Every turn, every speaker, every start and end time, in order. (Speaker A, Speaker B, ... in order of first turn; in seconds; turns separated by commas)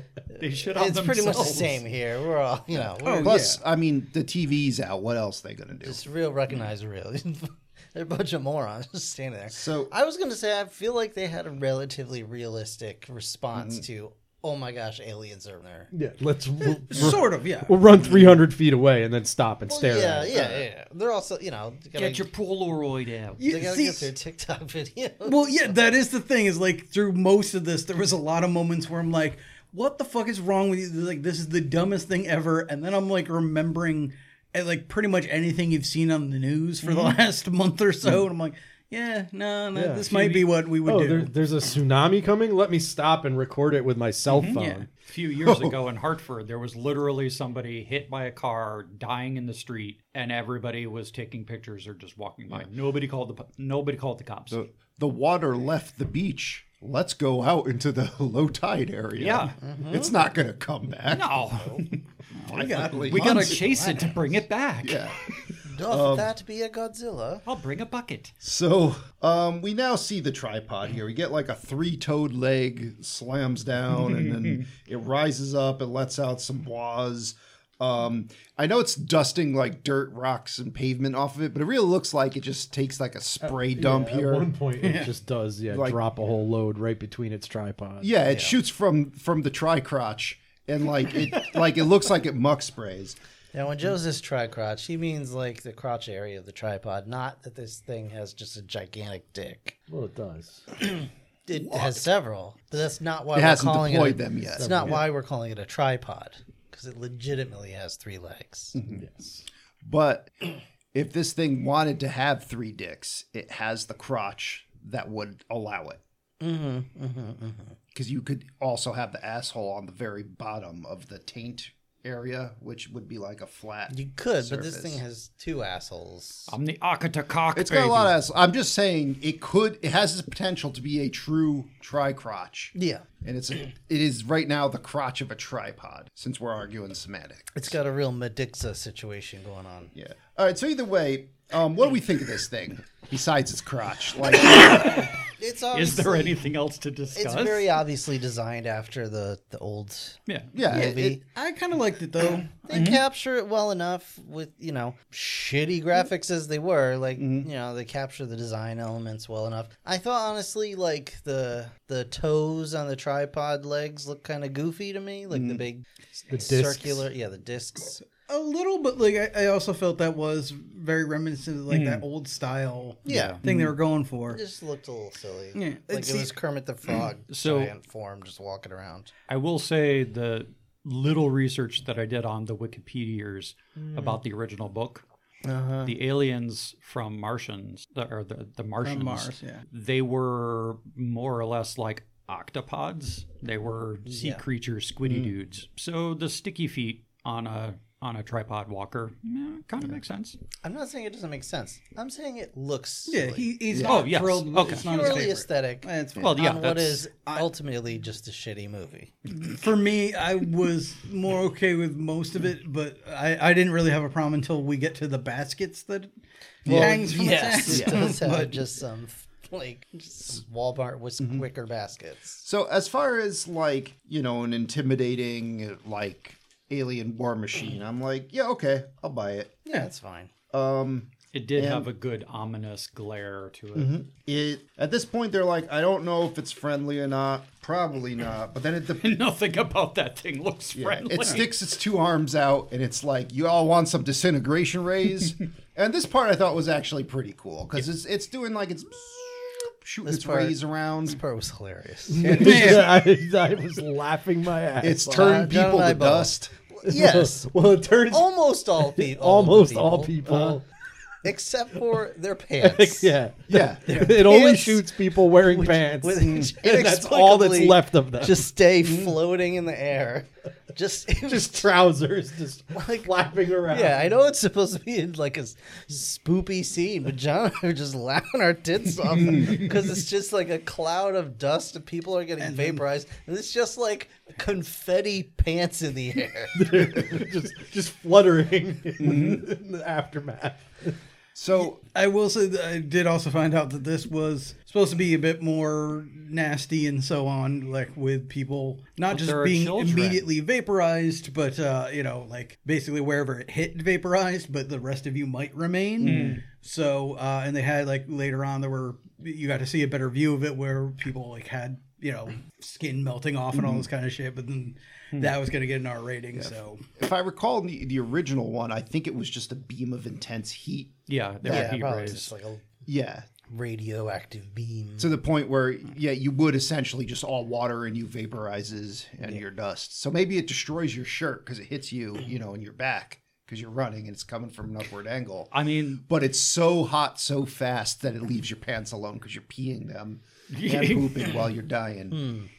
Speaker A: 0.3-3.4, Speaker B: 0.4-1.8, Speaker C: 2.7-6.0, Speaker D: 3.0-3.6, Speaker A: 5.8-15.9, Speaker C: 9.5-9.9, Speaker C: 13.5-13.8, Speaker E: 15.9-20.4, Speaker D: 16.9-17.8, Speaker C: 17.9-18.4, Speaker A: 19.7-22.3, Speaker C: 20.3-20.6, Speaker B: 21.9-23.4, Speaker D: 23.4-24.1, Speaker A: 23.4-25.7, Speaker D: 25.2-41.3, Speaker B: 36.8-37.2, Speaker E: 39.7-44.9, Speaker B: 44.3-54.6, Speaker D: 44.5-44.8, Speaker C: 45.4-45.7, Speaker C: 54.5-61.3, Speaker B: 59.2-59.5, Speaker A: 59.6-60.1, Speaker B: 61.1-65.0, Speaker A: 61.5-61.8, Speaker D: 62.4-64.2, Speaker C: 62.5-63.6, Speaker C: 64.8-65.2, Speaker A: 65.6-67.4, Speaker C: 65.8-66.3, Speaker B: 67.4-68.3, Speaker C: 68.4-84.5, Speaker B: 73.9-74.6, Speaker E: 83.4-88.1, Speaker D: 84.8-85.1, Speaker C: 85.7-86.0, Speaker C: 88.0-93.2, Speaker A: 88.3-88.5, Speaker A: 93.5-99.8, Speaker E: 99.9-100.7, Speaker A: 100.8-108.8, Speaker C: 101.7-101.9, Speaker C: 103.3-105.0, Speaker E: 104.6-105.1, Speaker C: 108.7-109.0, Speaker E: 108.9-109.5, Speaker C: 109.8-110.3, Speaker C: 110.9-116.0, Speaker A: 116.4-117.8, Speaker C: 117.9-125.0, Speaker A: 123.9-126.5, Speaker B: 126.5-128.1, Speaker C: 127.5-137.7, Speaker A: 132.7-133.0, Speaker A: 137.5-139.9, Speaker C: 139.9-144.9, Speaker A: 144.3-146.4, Speaker B: 145.7-147.7, Speaker A: 147.1-151.2, Speaker C: 150.5-151.2, Speaker D: 150.7-152.6, Speaker A: 152.6-168.1, Speaker B: 152.7-153.0, Speaker C: 157.2-157.5, Speaker C: 165.3-165.6, Speaker E: 166.3-167.1, Speaker D: 168.3-174.4, Speaker B: 171.7-172.0, Speaker A: 173.1-173.4, Speaker B: 173.1-173.4, Speaker C: 173.4-173.7, Speaker A: 174.3-179.1, Speaker D: 175.5-176.3, Speaker B: 177.3-177.7, Speaker B: 179.3-185.0, Speaker C: 185.4-185.9, Speaker B: 185.8-200.4, Speaker D: 188.8-189.6, Speaker A: 194.1-194.4, Speaker C: 195.0-195.3, Speaker A: 200.6-203.5, Speaker D: 203.1-206.4, Speaker C: 203.7-204.0, Speaker B: 203.8-205.2, Speaker A: 204.7-209.1, Speaker B: 206.2-207.0, Speaker D: 209.4-216.1, Speaker C: 216.7-218.2, Speaker D: 216.7-218.6, Speaker A: 216.7-222.4, Speaker C: 221.2-221.4, Speaker C: 222.4-229.6, Speaker A: 229.7-230.3, Speaker C: 230.5-231.9, Speaker B: 231.3-233.9, Speaker C: 233.7-239.1, Speaker B: 239.0-241.5, Speaker C: 240.7-251.2, Speaker A: 250.0-252.7, Speaker E: 252.1-255.5, Speaker C: 252.2-252.8, Speaker D: 252.3-252.9, Speaker C: 254.8-256.5, Speaker A: 255.1-257.5, Speaker E: 256.8-260.6, Speaker A: 258.1-260.6, Speaker A: 261.2-263.1, Speaker E: 262.6-268.5, Speaker C: 263.5-264.1, Speaker A: 263.9-271.7, Speaker C: 266.2-266.5, Speaker C: 268.9-269.1, Speaker E: 271.2-274.1, Speaker A: 272.7-273.1, Speaker A: 273.6-286.9, Speaker C: 279.2-279.6, Speaker D: 282.4-282.8, Speaker E: 286.5-291.0, Speaker C: 289.0-289.4, Speaker C: 291.3-291.8, Speaker D: 291.6-316.8, Speaker B: 299.1-300.3, Speaker C: 306.0-306.4, Speaker B: 306.0-306.4, Speaker C: 313.5-313.9, Speaker C: 316.4-321.8, Speaker B: 321.1-322.3, Speaker A: 321.4-322.6, Speaker C: 322.9-323.2, Speaker A: 323.5-325.1, Speaker C: 325.0-335.5, Speaker B: 335.5-336.0, Speaker C: 336.0-342.2, Speaker B: 340.5-341.5, Speaker A: 342.1-342.5